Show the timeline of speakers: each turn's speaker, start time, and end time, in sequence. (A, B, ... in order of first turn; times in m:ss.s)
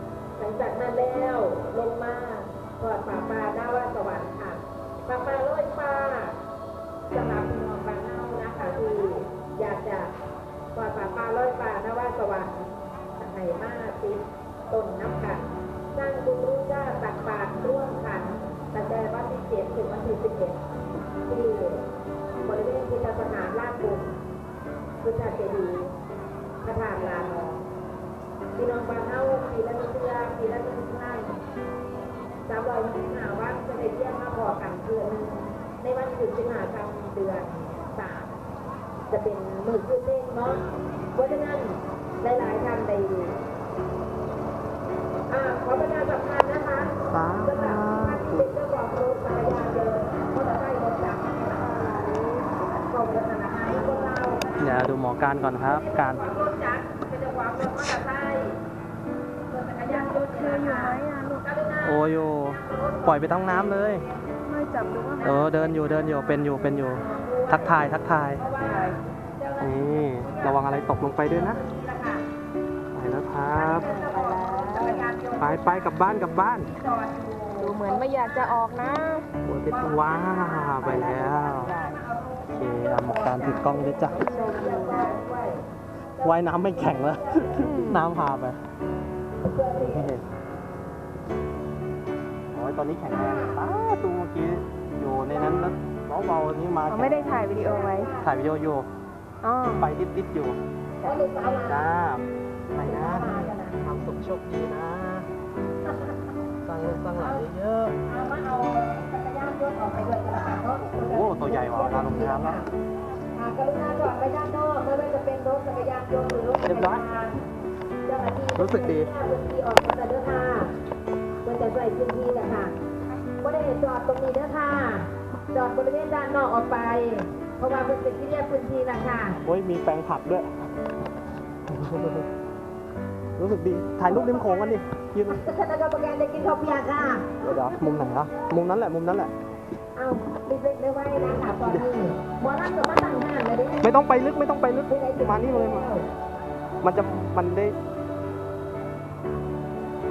0:00.4-0:06.4 A
0:07.1-0:10.1 A
0:10.7-0:12.6 A
0:13.2-0:20.6 A
0:21.2-0:21.9 A
0:22.4-0:24.1 A
0:25.0-0:25.9 A
0:26.6-0:27.6 A
0:28.5-0:31.4 A
0:32.4-0:38.3 A
0:39.1-0:43.4 A
0:45.3-0:51.8 A
0:47.1-0:48.5 B
0:51.6-0:52.5 C
0:52.8-0:54.9 A
0:54.6-0:56.2 B
0:55.6-0:58.6 A
0:59.5-1:04.4 A
1:00.1-1:01.4 C
1:01.8-1:04.0 B
1:04.4-1:05.4 C
1:05.2-1:05.5 A
1:05.2-1:08.4 B
1:06.7-1:12.2 A
1:08.7-1:09.0 C
1:09.6-1:11.6 B
1:12.9-1:13.9 B
1:13.5-1:15.9 A
1:13.8-1:15.0 C
1:15.4-1:16.7 B
1:16.7-1:18.6 A
1:17.6-1:19.3 C
1:19.4-1:21.8 B
1:19.7-1:25.6 A
1:21.1-1:21.8 C
1:22.5-1:24.2 B
1:24.2-1:25.1 C
1:26.2-1:27.9 A
1:26.2-1:28.6 B
1:27.6-1:28.1 C
1:29.4-1:30.1 A
1:29.8-1:30.2 B
1:32.5-1:37.5 B
1:33.1-1:33.6 A
1:36.9-1:38.1 C
1:37.4-1:38.3 A
1:38.2-1:38.9 B
1:39.4-1:39.9 C
1:39.7-1:40.6 B
1:41.0-1:41.8 A
1:41.7-1:45.3 B
1:42.8-1:43.8 A
1:45.8-1:46.2 A
1:46.6-1:48.0 B
1:47.2-1:47.4 A
1:48.0-1:52.7 A
1:50.8-1:52.6 B
1:53.3-1:57.3 A
1:56.6-1:57.0 B
1:58.0-2:00.7 A
1:58.6-1:59.1 B
2:01.4-2:02.7 A
2:03.4-2:09.4 A
2:09.4-2:10.5 B
2:11.7-2:12.2 B
2:13.4-2:15.4 B
2:14.0-2:17.3 A
2:17.4-2:19.3 B
2:19.9-2:23.9 A
2:23.8-2:25.9 B
2:24.9-2:26.1 A
2:26.8-2:27.8 B